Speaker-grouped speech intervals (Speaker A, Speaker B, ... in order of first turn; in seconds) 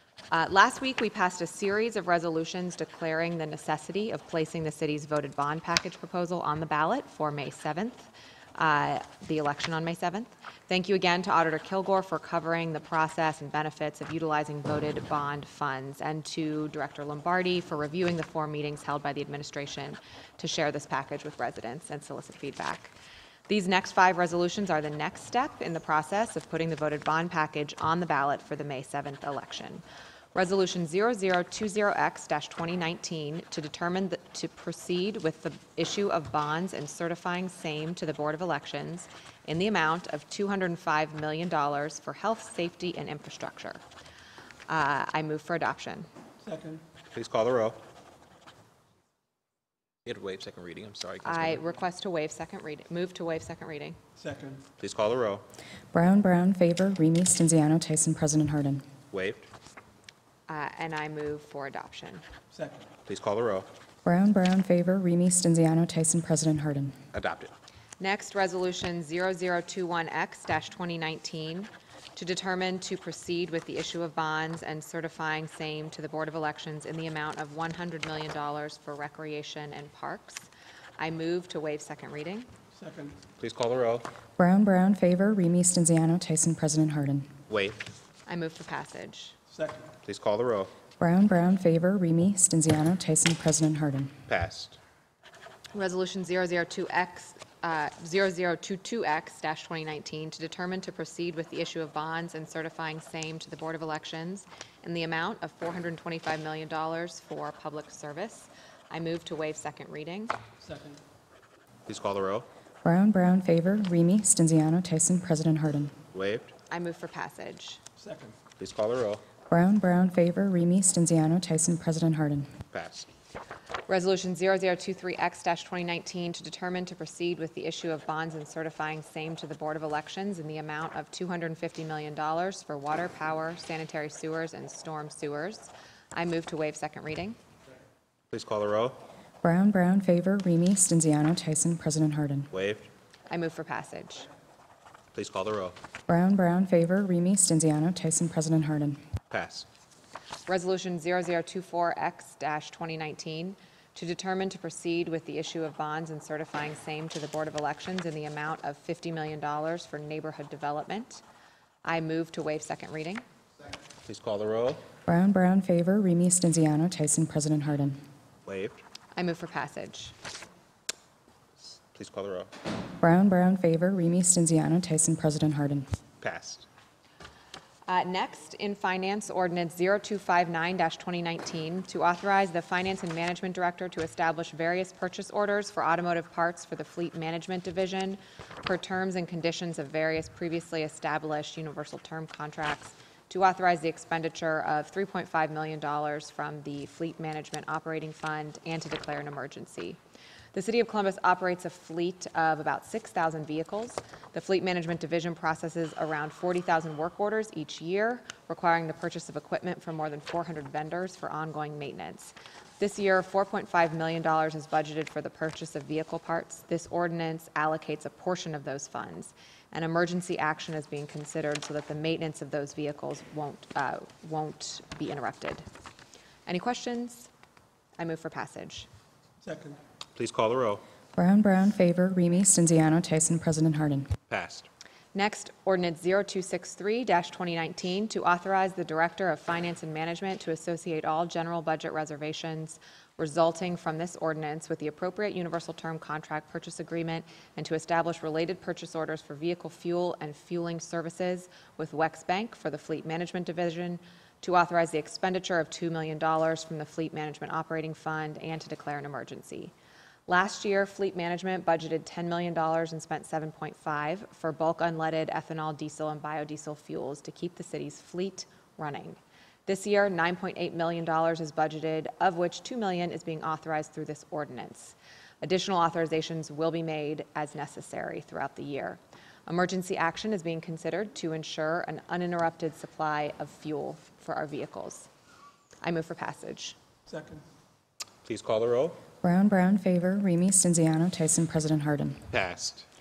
Speaker A: 0.3-22.9, 23.5-29.8, 30.4-43.8, 44.7-46.1, 51.2-54.0, 60.5-62.2, 68.0-82.5, 88.3-89.4, 95.7-110.3, 116.7-117.8, 123.9-137.4, 143.3-144.3, 150.5-161.2, 161.8-163.2, 169.2-170.2, 177.9-200.0, 200.5-225.7, 226.5-227.3, 228.0-228.9, 235.1-259.7, 260.3-285.1, 285.8-286.8
Speaker B: 46.4-46.8, 54.2-54.6, 62.5-62.9, 82.8-83.2, 89.5-89.9, 110.6-111.0, 118.0-118.4, 229.4-229.8, 287.1-287.4
Speaker C: 47.1-47.8, 50.1-51.6, 54.8-55.5, 59.1-59.5, 63.1-63.7, 67.1-67.5, 83.4-84.1, 87.5-87.8, 90.0-90.7, 94.3-94.8, 111.9-112.5, 116.1-116.5, 118.6-119.2, 122.7-123.1, 138.3-139.0, 142.5-142.9, 145.1-145.8, 149.3-149.7, 164.1-164.8, 168.5-168.8, 171.6-172.5, 176.2-176.7, 230.2-230.8, 234.3-234.7, 288.2-289.0, 292.3-292.9
Speaker D: 55.9-58.9, 64.0-67.0, 84.4-87.3, 91.0-94.1, 112.8-116.0, 119.5-122.5, 139.4-142.5, 146.1-149.0, 165.1-168.0, 173.0-175.9, 231.2-234.1, 289.2-292.2